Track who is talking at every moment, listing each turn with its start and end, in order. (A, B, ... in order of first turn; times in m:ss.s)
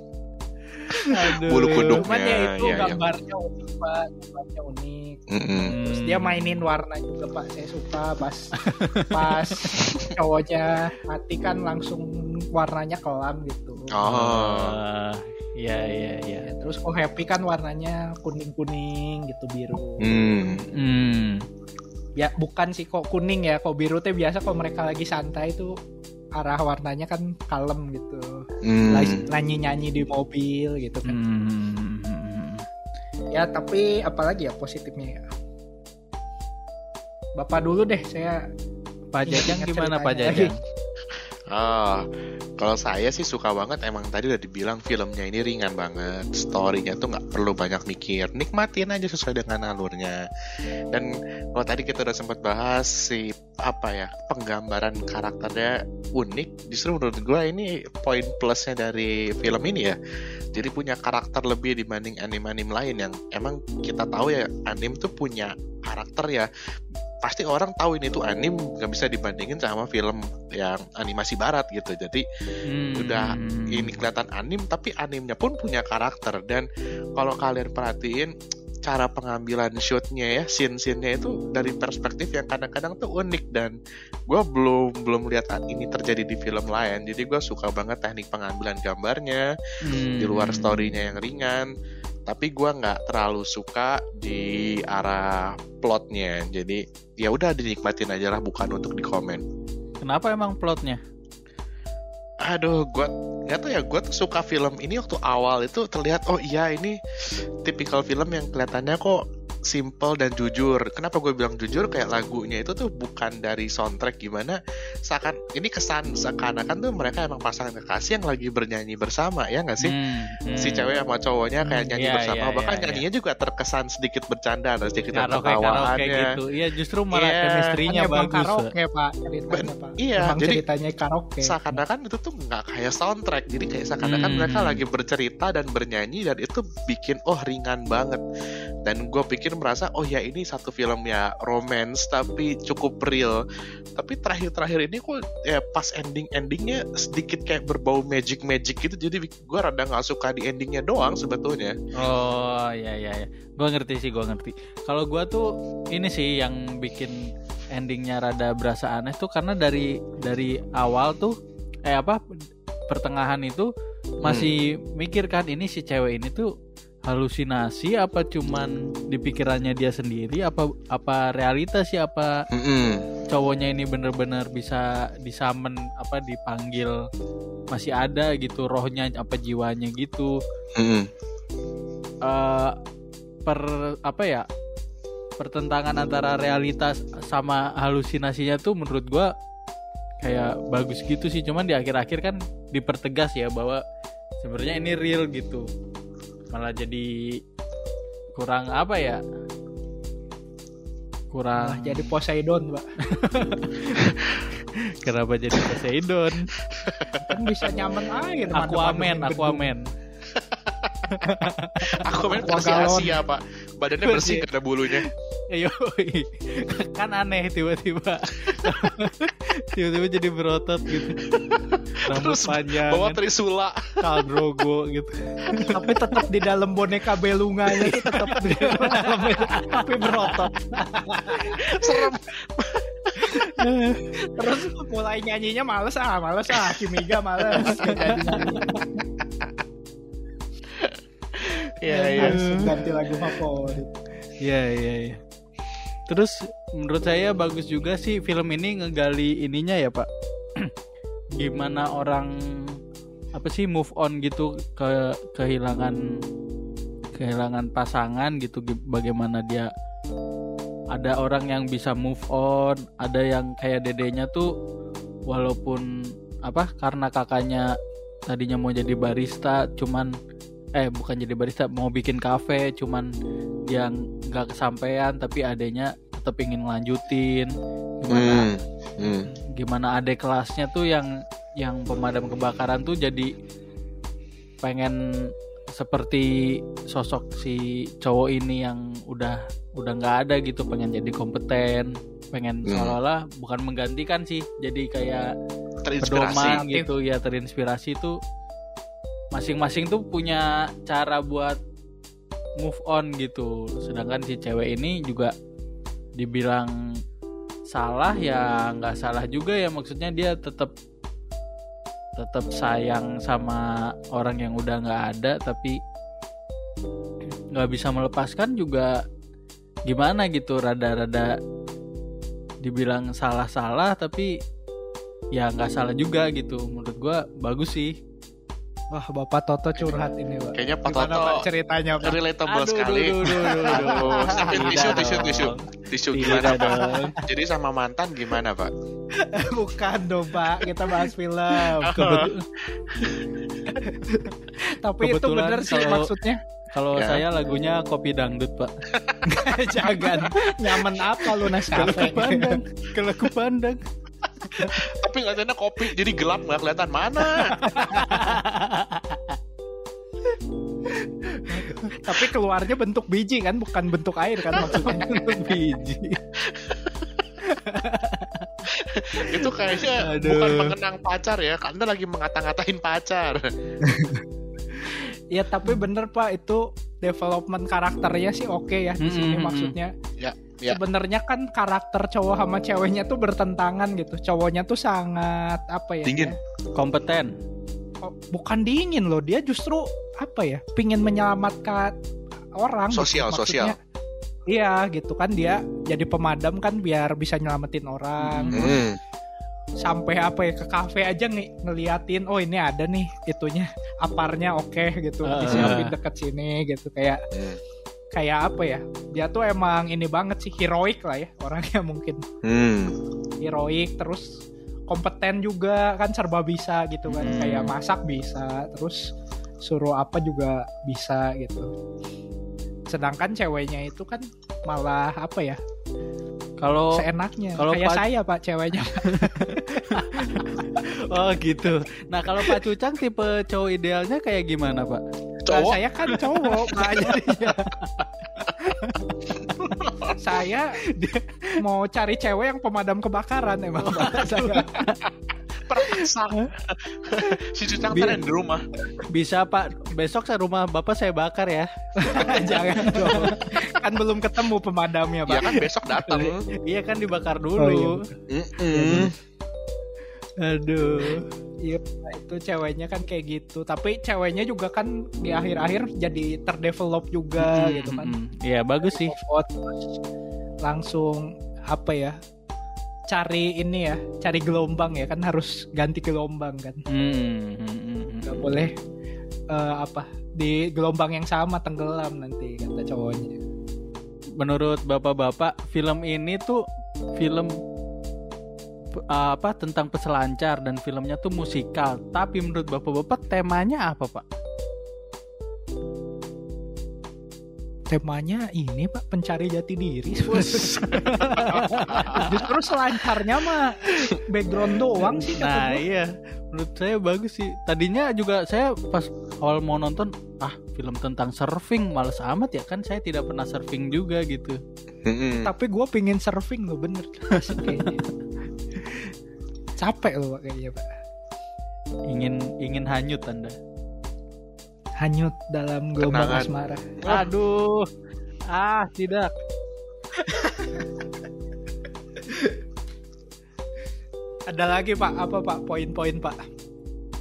0:00.9-0:02.0 A
0:01.0-0:03.0 B
0:01.8-0:05.2 C
0:05.3-0:05.7 B
0:05.6-0:06.6 A
0:05.8-0:14.0 C
0:08.6-0:09.8 A
0:13.9-0:14.8 B
0:14.0-0:16.5 A
0:16.4-0:20.1 C
0:20.0-0:20.6 B
0:20.7-0:21.5 A
0:22.2-0:25.7 C
0:26.4-0:31.2 C
0:28.6-0:29.2 B
0:31.0-0:32.6 A
0:33.3-0:35.2 C
0:37.4-0:38.4 C
0:39.1-0:40.6 A
0:39.2-0:40.5 C
0:41.5-0:42.0 B
0:42.6-0:50.2 B
0:50.9-1:00.0 B
1:00.5-1:06.5 B
1:07.2-1:12.2 B
1:12.7-1:14.0 A
1:13.0-1:18.3 B
1:18.8-1:23.8 B
1:24.3-1:29.5 B
1:29.8-1:30.9 A
1:30.2-1:31.7 B
1:32.3-1:39.4 B
1:40.0-1:41.0 A
1:42.4-2:00.0 B
1:59.8-2:00.9 A
2:00.6-2:06.3 B
2:01.6-2:03.0 A
2:05.1-2:08.7 A
2:07.1-2:07.8 B
2:07.8-2:11.6 C
2:09.5-2:10.6 B
2:11.4-2:18.2 B
2:14.0-2:14.8 A
2:18.8-2:23.4 B
2:24.0-2:31.8 B
2:32.0-2:41.3 A
2:41.8-2:42.2 A
2:42.9-2:43.7 A
2:44.2-2:46.5 A
2:44.2-2:44.5 B
2:47.0-2:52.4 A
2:52.5-2:53.0 B
2:53.3-2:57.0 A
2:57.7-3:00.4 A
3:00.8-3:01.1 B
3:02.2-3:02.8 A
3:03.5-3:04.5 A
3:05.4-3:09.3 A
3:10.2-3:13.8 A
3:14.4-3:15.7 A
3:16.5-3:17.4 A
3:18.4-3:19.2 A
3:21.3-3:22.2 A
3:21.5-3:22.8 C
3:23.1-3:26.5 A
3:26.7-3:27.2 B
3:27.2-3:29.7 C
3:28.5-3:29.9 A
3:30.3-3:31.1 B
3:31.1-3:32.2 A
3:31.8-3:35.1 B
3:32.1-3:33.2 C
3:34.0-3:41.2 A
3:38.5-3:38.8 B
3:41.2-3:44.2 B
3:42.0-3:43.2 A
3:44.0-3:46.2 A
3:45.5-3:45.7 B
3:45.5-3:51.6 C
3:47.8-3:50.4 A
3:51.5-3:53.4 B
3:53.4-3:54.1 A
3:54.1-3:58.8 C
3:56.5-3:57.9 B
3:57.6-3:58.8 A
3:58.6-3:59.5 B
4:00.7-4:02.7 B
4:01.9-4:04.0 C
4:02.2-4:02.8 A
4:04.4-4:05.2 A
4:06.1-4:10.7 A
4:11.4-4:12.8 A
4:13.3-4:16.2 A
4:17.1-4:19.7 A
4:20.9-4:24.5 A
4:25.3-4:27.7 A
4:28.3-4:30.1 A
4:30.8-4:33.1 A
4:33.7-4:38.5 A
4:38.1-4:39.3 B
4:39.2-4:43.3 A
4:44.6-4:55.3 A
4:52.6-4:53.0 B
4:55.8-4:56.6 B
4:56.0-4:58.2 A
4:56.5-4:56.9 C
4:59.3-5:01.6 A
5:02.6-5:05.3 A
5:06.2-5:07.0 A
5:07.7-5:10.7 A
5:12.2-5:15.8 A
5:17.5-5:19.0 A
5:19.9-5:21.4 A
5:22.6-5:24.4 A
5:25.3-5:28.0 A
5:28.9-5:32.2 C
5:29.8-5:31.5 B
5:32.0-5:38.7 B
5:32.5-5:37.2 A
5:33.3-5:35.1 C
5:36.6-5:37.1 C
5:39.1-5:42.1 C
5:41.8-5:42.4 A
5:41.8-5:43.4 B
5:43.7-5:46.4 C
5:45.0-5:46.1 A
5:46.7-5:48.7 A
5:46.9-5:47.2 B
5:48.9-5:49.2 B
5:49.2-5:52.6 C
5:49.8-5:53.8 A
5:54.5-5:57.6 B
5:57.6-5:58.4 C
5:57.6-5:59.4 A
6:01.2-6:02.0 A
6:01.6-6:05.5 C
6:04.5-6:06.2 A
6:06.4-6:07.2 B
6:07.5-6:08.5 A
6:08.6-6:13.4 B
6:09.2-6:10.8 A
6:13.8-6:14.2 C
6:14.9-6:20.0 C
6:19.0-6:19.8 A
6:20.2-6:20.8 B
6:20.7-6:26.4 C
6:26.0-6:26.3 B
6:26.8-6:27.3 A
6:28.0-6:31.9 C
6:32.6-6:33.8 C
6:32.9-6:33.8 B
6:34.5-6:38.8 C
6:38.2-6:38.8 A
6:38.5-6:39.0 B
6:39.8-6:47.2 C
6:45.2-6:45.9 A
6:45.5-6:45.8 B
6:47.3-6:47.6 B
6:48.1-6:52.2 C
6:52.4-6:53.0 B
6:53.4-6:59.1 C
6:57.1-6:57.8 A
6:59.6-7:01.7 C
7:02.9-7:05.6 C
7:06.6-7:07.0 A
7:06.9-7:10.6 C
7:07.6-7:08.0 A
7:09.0-7:15.0 A
7:15.4-7:15.8 B
7:15.5-7:17.8 C
7:16.2-7:18.0 A
7:18.6-7:19.3 A
7:19.8-7:20.1 B
7:20.1-7:20.8 C
7:20.9-7:21.6 A
7:21.6-7:24.8 C
7:23.8-7:25.0 A
7:25.6-7:28.6 B
7:26.0-7:26.5 A
7:27.9-7:28.2 C
7:29.1-7:33.4 A
7:32.0-7:36.2 C
7:35.2-7:36.4 B
7:36.6-7:38.0 A
7:37.6-7:38.1 C
7:38.3-7:39.1 B
7:38.7-7:39.1 C
7:40.4-7:41.3 A
7:41.6-7:48.1 C
7:47.4-7:49.1 A
7:48.8-7:49.9 C
7:50.6-7:52.2 C
7:53.1-7:56.8 C
7:56.9-7:58.6 A
7:58.2-7:58.7 C
7:59.5-8:03.4 C
8:04.4-8:06.6 A
8:07.2-8:07.6 A
8:09.0-8:14.2 A
8:17.9-8:25.8 C
8:20.3-8:22.5 A
8:21.2-8:22.3 B
8:25.0-8:34.6 A
8:35.0-8:35.5 B
8:35.3-8:38.0 C
8:37.4-8:37.9 A
8:39.8-8:40.9 C
8:42.1-8:43.5 A
8:45.0-8:46.9 C
8:46.0-8:47.3 B
8:47.0-8:47.9 A
8:48.5-8:49.3 A
8:50.2-8:50.8 C
8:54.5-8:56.4 C